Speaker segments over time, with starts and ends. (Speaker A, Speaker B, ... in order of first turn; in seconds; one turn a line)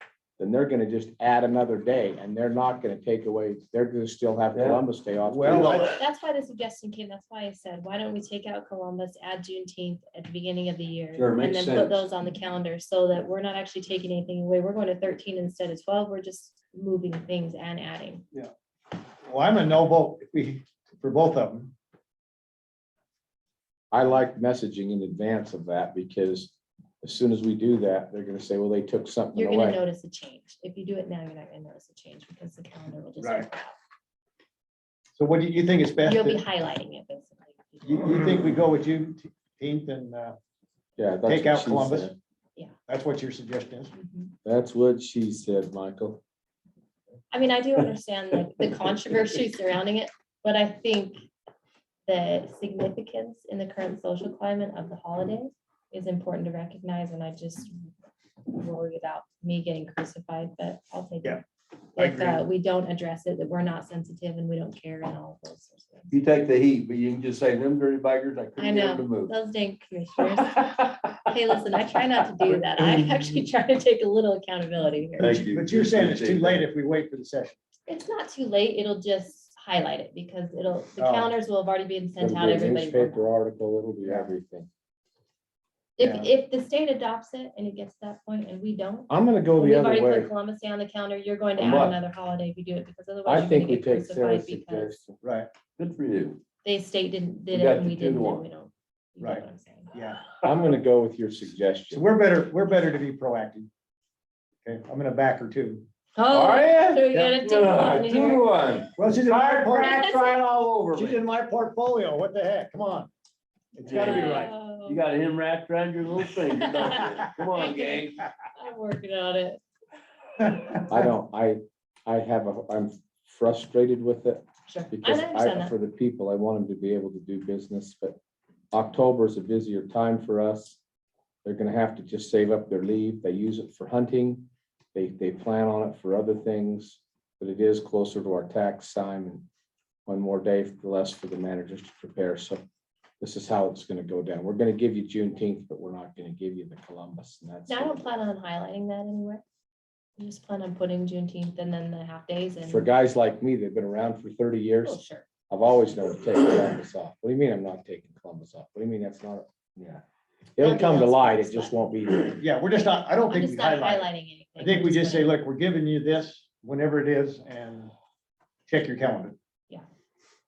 Speaker A: 0.4-5.8
Speaker B: 4.5-4.8
Speaker C: 5.2-6.0
Speaker D: 5.6-18.2
Speaker B: 11.1-12.1
Speaker C: 19.2-21.7
Speaker A: 23.9-29.8
Speaker D: 29.3-33.8
Speaker C: 33.2-33.5
Speaker C: 35.1-36.4
Speaker D: 36.0-38.0
Speaker C: 37.8-40.4
Speaker A: 41.0-42.1
Speaker C: 41.2-42.1
Speaker C: 42.9-43.9
Speaker D: 43.9-44.3
Speaker A: 44.4-46.2
Speaker D: 47.3-51.2
Speaker D: 52.0-57.8
Speaker D: 58.4-61.4
Speaker D: 61.9-66.2
Speaker C: 62.0-62.5
Speaker B: 66.1-69.3
Speaker D: 68.6-75.5
Speaker B: 75.2-76.7
Speaker C: 75.2-77.6
Speaker D: 77.9-83.3
Speaker C: 81.0-81.3
Speaker A: 82.2-84.7
Speaker C: 84.0-84.3
Speaker D: 86.0-95.0
Speaker C: 86.0-86.3
Speaker A: 89.1-90.3
Speaker B: 91.6-92.0
Speaker A: 93.2-95.2
Speaker C: 95.2-95.5
Speaker B: 95.8-96.4
Speaker D: 96.6-99.9
Speaker B: 97.5-98.5
Speaker C: 99.2-100.2
Speaker A: 100.4-102.0
Speaker C: 101.9-103.7
Speaker C: 104.6-105.8
Speaker D: 106.2-108.4
Speaker B: 106.3-111.2
Speaker C: 108.9-110.3
Speaker D: 109.8-110.3
Speaker C: 110.9-113.1
Speaker C: 113.7-114.5
Speaker B: 113.8-118.2
Speaker D: 113.9-115.0
Speaker D: 116.4-119.6
Speaker A: 120.9-128.2
Speaker D: 124.7-125.7
Speaker A: 128.7-130.8
Speaker A: 131.4-139.4
Speaker A: 140.1-142.6
Speaker A: 143.2-148.0
Speaker D: 147.7-149.4
Speaker D: 150.2-152.9
Speaker A: 152.6-160.0
Speaker D: 154.8-155.2
Speaker A: 160.6-162.4
Speaker D: 160.6-161.8
Speaker C: 162.4-167.9
Speaker D: 162.8-165.4
Speaker C: 168.7-169.3